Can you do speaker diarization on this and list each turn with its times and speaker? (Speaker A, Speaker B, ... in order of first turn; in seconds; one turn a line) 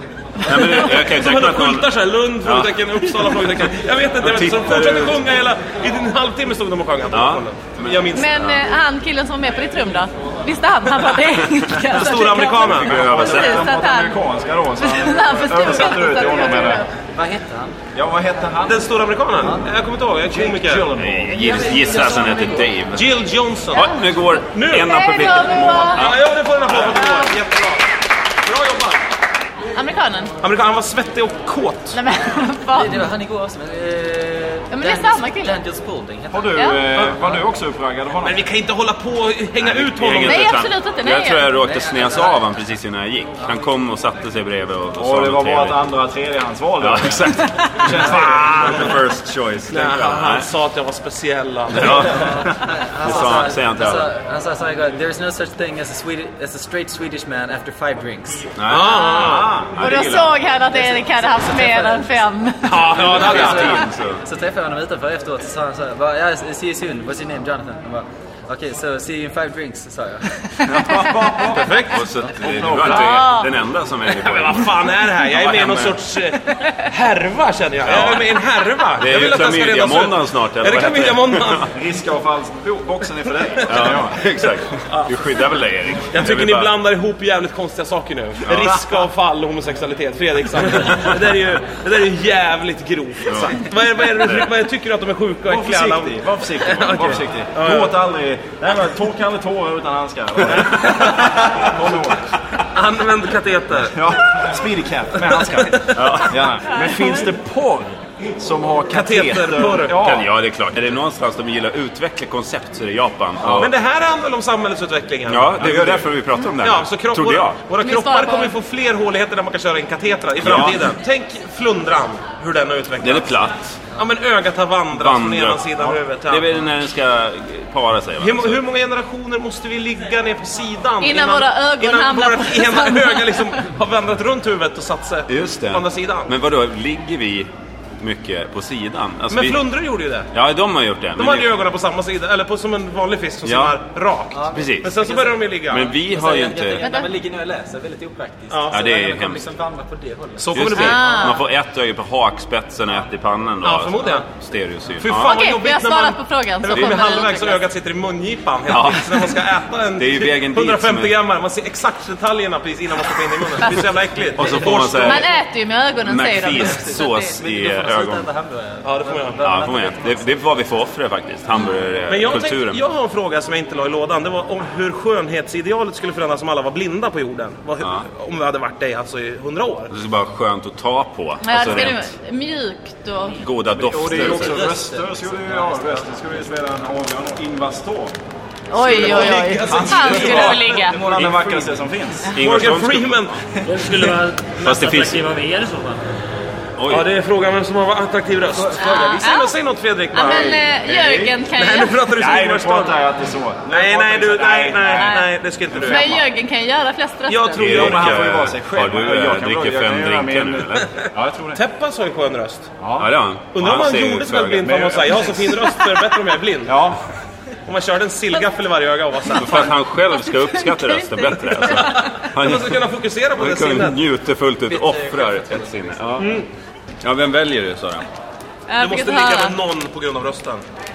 Speaker A: 0.5-3.5
Speaker B: 0.5-8.3
Speaker A: 4.2-5.2
Speaker A: 7.1-8.6
Speaker C: 8.1-14.2
Speaker B: 11.8-13.1
Speaker A: 12.6-13.7
Speaker D: 12.7-16.9
Speaker C: 14.8-16.9
Speaker E: 17.1-17.8
Speaker D: 17.9-18.9
Speaker B: 18.7-20.9
Speaker D: 20.3-21.6
Speaker A: 21.0-23.1
Speaker E: 21.3-22.7
Speaker B: 22.9-23.9
Speaker A: 23.7-27.0
Speaker B: 24.5-29.1
Speaker C: 24.7-26.1
Speaker C: 27.0-27.3
Speaker C: 29.8-30.3
Speaker B: 30.4-32.0
Speaker C: 31.9-33.1
Speaker E: 32.7-37.2
Speaker C: 34.7-35.6
Speaker D: 36.3-38.4
Speaker C: 36.5-36.8
Speaker B: 38.2-40.5
Speaker A: 39.6-45.8
Speaker C: 40.2-41.5
Speaker E: 41.6-42.4
Speaker D: 45.0-48.5
Speaker A: 46.8-50.5
Speaker B: 47.9-49.0
Speaker B: 49.7-52.4
Speaker A: 51.7-54.1
Speaker E: 52.1-58.5
Speaker A: 58.6-60.4
Speaker B: 58.7-59.6
Speaker C: 58.8-62.9
Speaker D: 59.2-59.7
Speaker E: 60.9-62.1
Speaker B: 62.6-63.9
Speaker A: 62.8-64.2
Speaker E: 63.1-71.0
Speaker D: 70.6-73.2
Speaker B: 71.5-71.9
Speaker A: 71.7-76.0
Speaker C: 72.9-73.5
Speaker B: 74.1-81.7
Speaker A: 77.8-78.3
Speaker A: 79.0-81.7
Speaker D: 81.7-84.3
Speaker A: 83.7-86.7
Speaker B: 86.1-98.0
Speaker A: 88.5-88.8
Speaker A: 93.3-93.6
Speaker A: 94.2-94.5
Speaker D: 95.5-102.3
Speaker B: 100.8-101.7
Speaker B: 102.7-104.2
Speaker D: 103.8-110.3
Speaker B: 105.5-106.2
Speaker A: 105.9-106.8
Speaker B: 108.9-110.0
Speaker A: 110.0-113.7
Speaker B: 113.5-115.6
Speaker A: 115.3-117.6
Speaker D: 115.6-116.1
Speaker B: 116.6-123.4
Speaker C: 117.8-118.6
Speaker A: 120.4-120.9
Speaker A: 123.0-123.8
Speaker B: 123.9-126.5
Speaker A: 124.9-128.6
Speaker B: 128.2-136.3
Speaker C: 131.0-133.5
Speaker A: 135.3-137.5
Speaker A: 138.0-139.7
Speaker B: 139.3-140.3
Speaker A: 140.3-141.5
Speaker B: 141.2-145.9
Speaker A: 143.4-143.8
Speaker E: 144.3-145.4
Speaker A: 144.5-144.9
Speaker A: 145.7-146.9
Speaker E: 145.9-150.9
Speaker C: 146.8-147.1
Speaker B: 148.5-148.9
Speaker A: 148.7-149.4
Speaker B: 150.4-151.3
Speaker A: 150.5-155.3
Speaker C: 150.7-151.4
Speaker B: 153.6-154.3
Speaker B: 155.0-165.3
Speaker C: 155.2-157.6
Speaker A: 158.7-159.3
Speaker A: 160.0-161.1
Speaker A: 164.4-165.3
Speaker C: 165.0-167.4
Speaker A: 166.1-168.3
Speaker E: 166.6-170.3
Speaker B: 168.8-169.4
Speaker A: 169.4-172.8
Speaker B: 172.1-179.9
Speaker A: 177.8-178.1
Speaker A: 179.9-182.1
Speaker C: 181.4-183.4
Speaker A: 183.4-184.7
Speaker D: 183.8-188.2
Speaker E: 184.1-186.1
Speaker C: 188.7-191.0
Speaker B: 188.8-190.8
Speaker D: 188.8-192.3
Speaker A: 191.1-191.6
Speaker A: 192.3-193.4
Speaker B: 192.4-193.4
Speaker F: 193.7-196.1
Speaker A: 194.6-195.3
Speaker A: 196.8-197.1
Speaker B: 196.9-203.0
Speaker C: 198.8-199.5
Speaker C: 200.1-202.0
Speaker D: 200.1-201.1
Speaker D: 202.1-205.2
Speaker B: 203.7-206.3
Speaker C: 204.9-205.3
Speaker D: 205.7-206.1
Speaker C: 205.8-207.6
Speaker B: 207.3-208.3
Speaker A: 207.6-210.9
Speaker D: 207.6-211.6
Speaker B: 211.6-212.7
Speaker D: 212.8-213.1
Speaker A: 213.0-214.9
Speaker B: 213.6-216.8
Speaker D: 214.6-215.8
Speaker D: 216.7-217.0
Speaker B: 217.7-219.7
Speaker A: 219.3-222.8
Speaker C: 220.6-222.1
Speaker B: 221.7-224.0
Speaker A: 223.4-226.4
Speaker E: 224.7-226.2
Speaker B: 226.2-226.5
Speaker A: 227.0-228.1
Speaker C: 228.7-229.6
Speaker B: 228.8-230.6